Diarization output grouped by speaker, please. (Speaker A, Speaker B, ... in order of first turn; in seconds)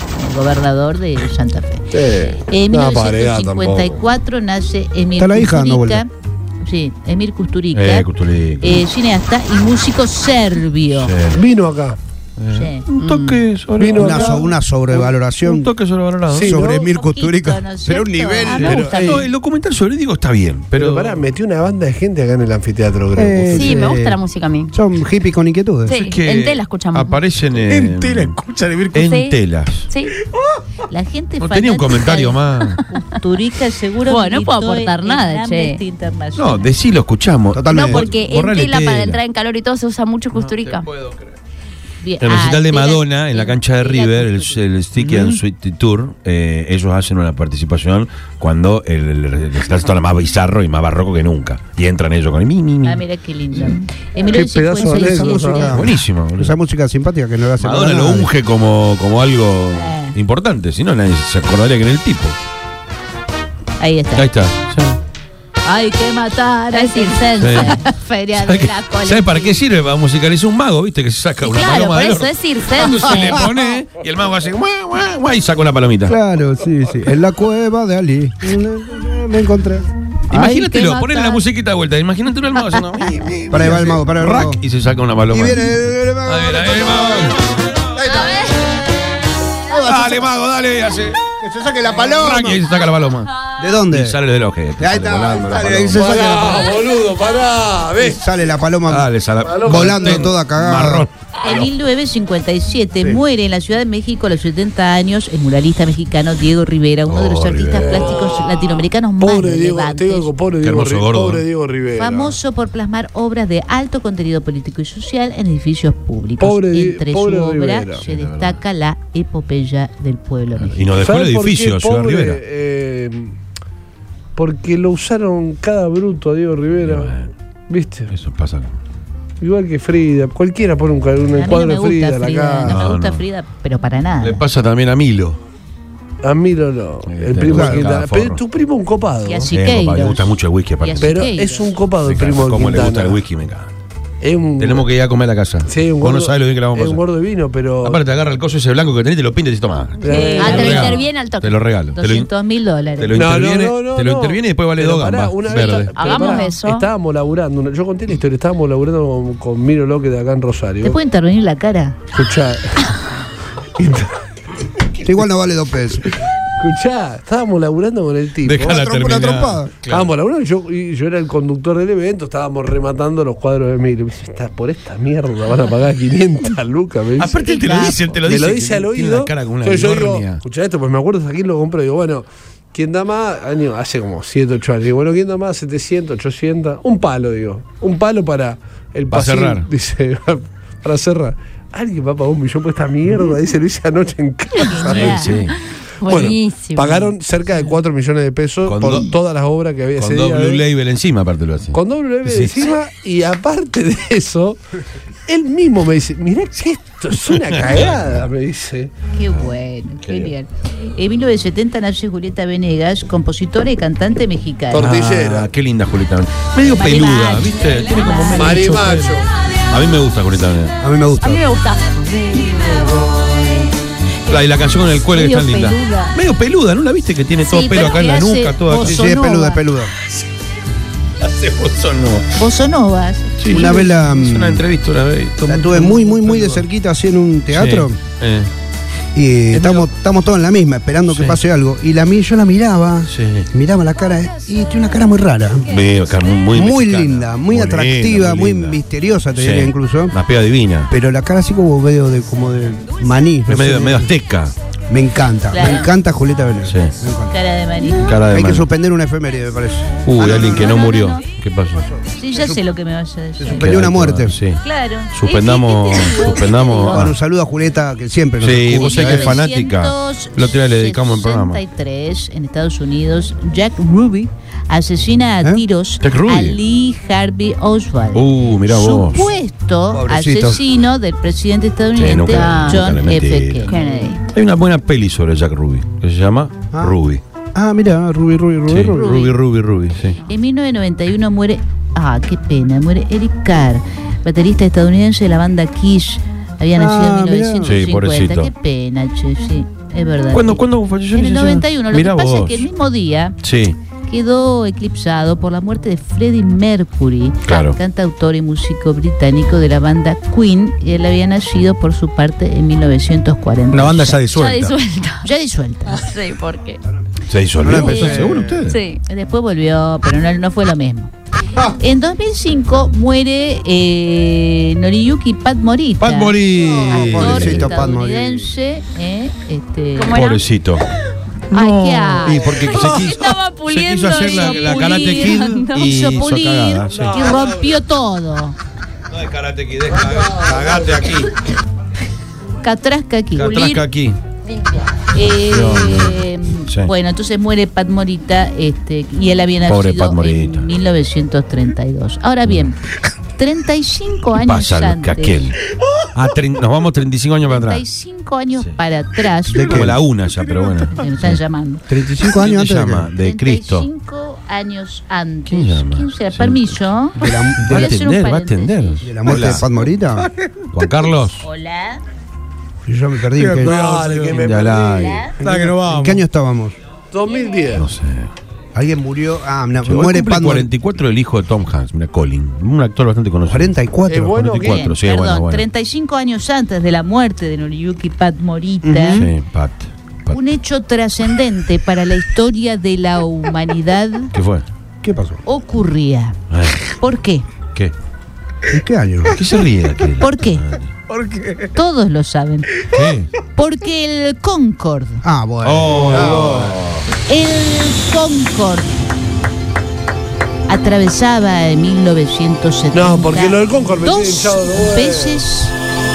Speaker A: 0.1-6.1, 6.6-8.1, 8.6-11.1, 12.5-12.9, 16.6-18.9, 30.9-36.7, 42.0-44.7, 52.8-55.8, 59.7-60.1, 63.8-64.3, 65.6-69.6, 101.4-110.3, 112.0-120.8, 131.3-134.4, 139.2-141.7, 150.1-150.9, 151.9-153.2, 160.8-161.9, 194.6-195.3, 209.1-214.9, 216.6-218.8, 232.3-233.8, 255.5-255.9, 257.3-258.2, 260.2-261.2, 262.1-263.7, 264.6-267.1, 268.8-284.1, 288.9-289.4, 290.2-300.6, 301.1-303.4, 304.0-314.3, 315.2-316.0, 319.1-321.1, 321.8-330.2, 331.5-333.0, 334.2-338.6, 342.6-343.6, 345.1-352.8, 353.4-355.5, 357.4-359.8, 360.9-361.8, 363.2-369.1, 371.4-372.0, 374.9-375.3, 384.6-389.2, 390.3-394.3, 395.4-396.4, 397.0-397.5, 400.2-400.8, 401.7-402.8, 403.5-405.2, 407.3-408.9, 410.7-415.7
Speaker B: 1.9-4.0, 11.3-12.0, 13.8-15.1, 16.3-16.8, 18.6-19.3, 20.7-23.8, 53.7-55.7, 95.9-98.2, 99.4-100.3, 107.8-112.4, 116.4-118.0, 120.9-123.3, 124.3-127.2, 127.7-128.1, 129.4-132.8, 136.2-139.6, 141.0-143.2, 144.2-144.9, 145.7-148.0, 150.0-151.0, 153.1-161.0, 162.1-163.0, 163.8-164.2, 166.6-168.8, 169.9-195.4, 196.0-200.6, 201.7-204.6, 205.3-208.9, 214.7-215.5, 218.3-219.3, 373.6-375.1, 377.1-377.9, 384.1-384.9, 412.9-415.4
Speaker C: 5.2-6.0, 13.9-15.7, 16.3-18.8, 23.1-24.2, 24.7-25.9, 37.5-38.1, 54.8-58.3, 73.1-73.6, 76.0-80.7, 83.5-84.6, 85.3-87.4, 87.9-88.5, 89.7-90.3, 91.3-92.7, 93.6-94.2, 94.8-96.8, 98.0-99.1, 99.6-101.1, 137.5-137.8, 165.0-166.1, 168.6-169.7, 220.8-221.4, 228.8-229.9, 233.5-234.7, 235.4-238.0, 239.1-245.8, 246.5-250.2, 250.9-254.1, 254.9-257.3, 258.3-260.8, 261.7-262.6, 263.4-264.4, 266.9-269.3, 279.9-280.6, 287.5-289.1, 296.8-297.8, 317.6-318.7, 326.6-328.5, 359.5-360.0, 361.9-363.1, 367.2-367.9, 369.0-370.3, 372.9-373.8, 375.4-376.8, 378.7-380.7, 383.4-384.4, 388.8-389.3, 395.0-395.4, 398.7-399.4, 405.2-406.7
Speaker D: 7.7-8.8, 10.9-11.4, 12.4-14.3, 15.3-16.6, 18.6-21.2, 25.9-28.4, 28.9-29.9, 31.4-32.8, 36.3-39.2, 40.3-41.3, 42.2-53.0, 55.7-56.6, 57.6-62.4, 64.1-65.0, 67.4-67.8, 68.3-76.2, 80.3-87.6, 89.8-91.2, 92.0-93.3, 93.9-96.3, 98.9-101.7, 107.0-108.1, 110.6-111.4, 118.0-118.6, 120.5-122.4, 126.8-127.3, 128.1-128.7, 132.7-133.2, 134.2-135.4, 137.1-138.4, 139.5-141.3, 142.0-143.7, 144.6-147.1, 147.8-152.3, 153.0-156.1, 168.4-170.1, 177.2-180.4, 189.1-189.7, 194.9-195.5, 198.6-199.1, 199.9-202.7, 207.3-208.3, 210.0-210.3, 214.7-220.8, 224.3-229.0, 231.2-232.2, 233.4-236.6, 237.5-238.5, 239.5-239.9, 241.1-241.4, 243.1-243.5, 245.7-248.8, 249.3-250.9, 253.5-254.5, 256.6-256.9, 258.0-258.7, 260.0-261.9, 263.6-267.1, 268.4-271.6, 276.0-276.6, 278.1-279.3, 281.9-287.2, 288.7-290.2, 297.6-298.5, 300.3-302.6, 303.4-303.8, 307.4-307.8, 317.3-318.8, 326.0-327.8, 330.1-330.8, 331.5-337.5, 339.1-341.3, 343.4-344.2, 345.3-346.9, 349.6-350.7, 352.4-352.7, 354.3-355.6, 356.1-357.8, 359.6-361.4, 362.2-363.9, 365.4-369.6, 370.7-371.4, 374.3-375.3, 377.7-378.3, 379.9-385.6, 389.1-390.4, 394.3-394.6, 396.5-397.0, 399.3-400.9, 402.9-403.3, 405.6-407.1
Speaker E: 18.4-19.2, 23.5-24.7, 25.9-27.2, 29.0-29.3, 29.9-30.1, 34.0-35.8, 37.7-40.9, 66.7-67.7, 71.4-73.3, 80.6-81.4, 150.1-151.6, 155.9-156.9, 196.0-197.1, 221.2-223.0, 225.1-226.2, 227.4-229.6, 282.3-282.8, 283.7-284.2, 314.3-315.2, 315.9-316.8, 317.8-318.1, 318.6-319.0, 329.9-330.4, 331.5-335.8, 343.5-343.8
Speaker F: 27.6-29.0, 313.7-314.7, 370.2-370.5, 373.4-374.5, 375.4-376.2, 401.1-401.7